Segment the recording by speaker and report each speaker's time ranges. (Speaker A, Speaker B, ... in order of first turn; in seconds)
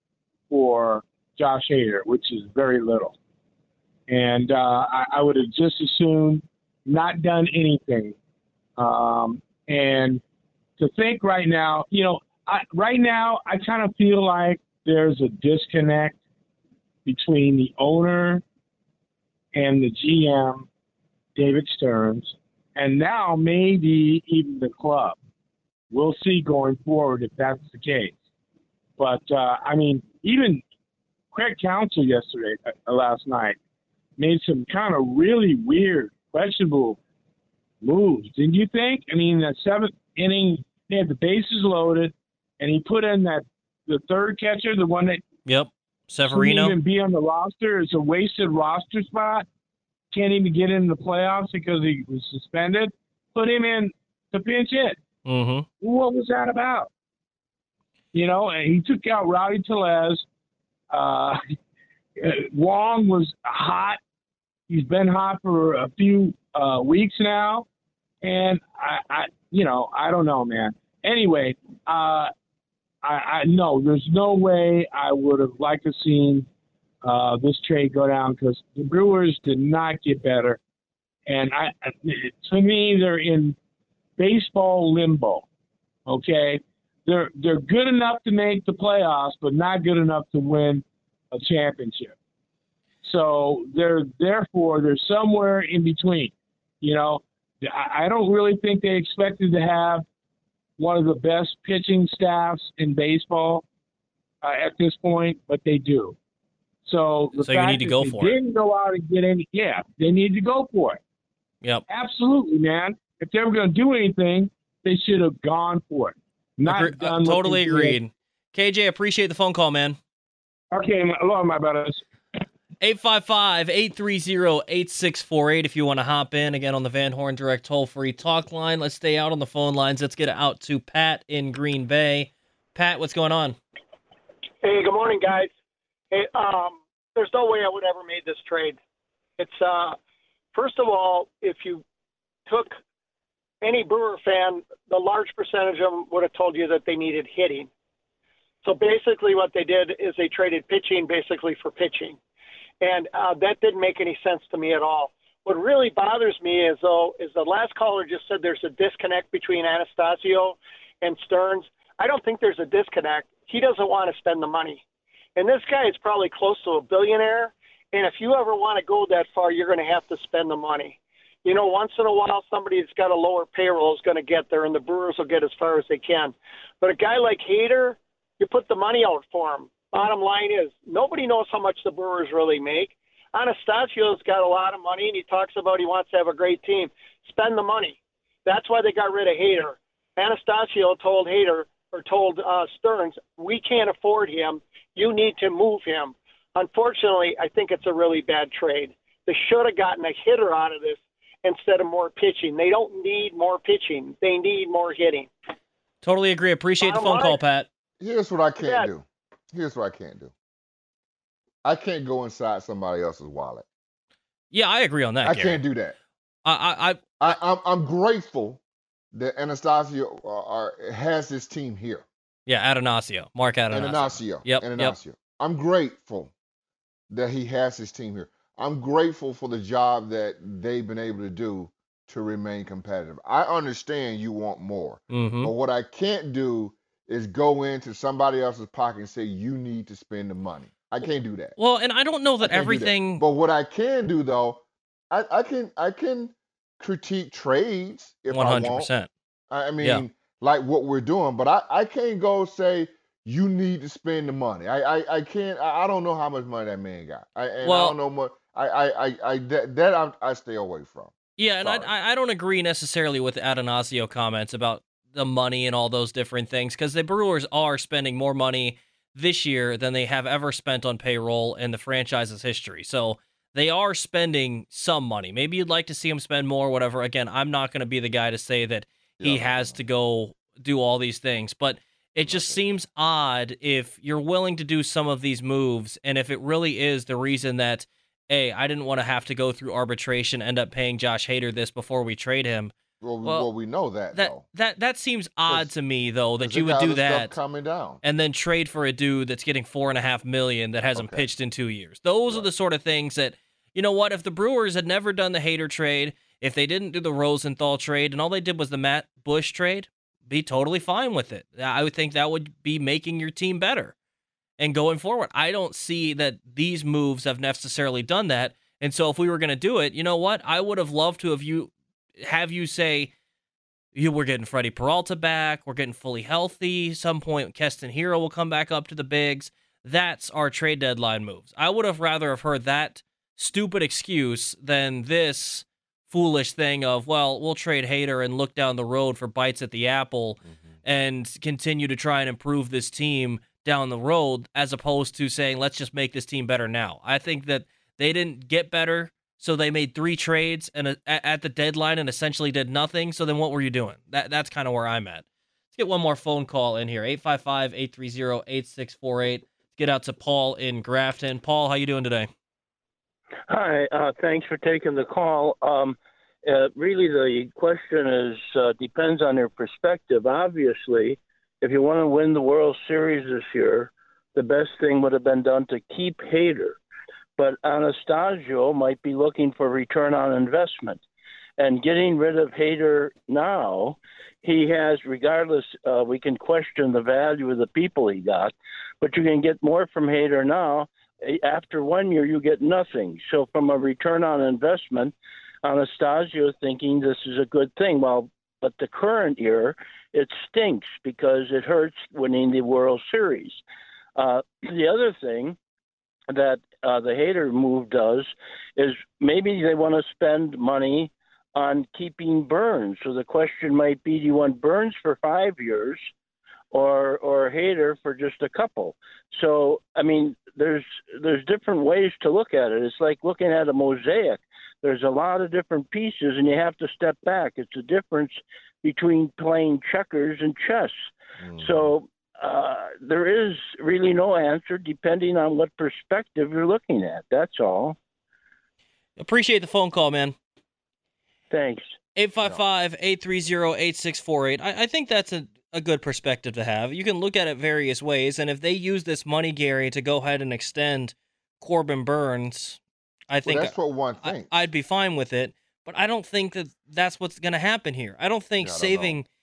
Speaker A: 0.5-3.2, 4.1-8.2, 8.8-10.2, 10.8-16.2, 17.1-18.4, 19.6-20.7, 21.4-25.2, 25.9-28.2, 29.0-30.6, 31.3-33.6, 34.2-37.0, 37.8-45.2, 46.3-49.5, 50.1-55.0, 55.8-56.9, 58.1-60.2, 60.9-61.4, 62.2-64.0, 64.7-67.7, 68.2-72.3, 73.0-76.5, 77.0-80.6, 81.3-83.6, 84.2-85.5, 86.1-92.2, 93.0-100.0, 100.8-103.6, 104.4-106.2, 106.8-111.0, 111.9-118.0, 120.7-122.0
Speaker B: 45.5-46.8, 55.2-55.7, 107.4-108.4, 116.7-120.0, 122.8-133.6, 206.0-207.7, 214.5-215.6, 216.4-217.4, 222.5-225.0, 235.1-235.5, 241.6-243.2, 248.3-249.1, 257.6-258.0, 261.4-292.7, 294.1-297.3, 298.0-313.9, 314.6-323.1, 323.9-362.3, 439.2-440.4, 442.2-452.8, 453.3-459.3
Speaker C: 134.6-135.5, 136.1-138.8, 139.4-140.0, 140.5-141.8, 142.5-142.8, 143.6-147.7, 148.6-152.2, 152.8-164.8, 165.4-205.3, 206.8-207.4
Speaker D: 208.0-210.3, 211.6-213.7, 215.2-216.0, 217.2-218.6, 219.1-222.1, 223.7-226.3, 227.1-241.6, 242.4-248.9, 249.5-261.9, 279.2-279.8, 282.2-282.6, 293.0-294.4, 296.4-298.0, 300.9-301.3, 340.4-340.8, 431.4-431.9, 453.4-454.6, 458.6-459.2
Speaker E: 363.5-376.8, 377.4-381.0, 381.6-403.6, 404.2-405.6, 406.3-416.0, 416.7-438.0, 441.5-442.0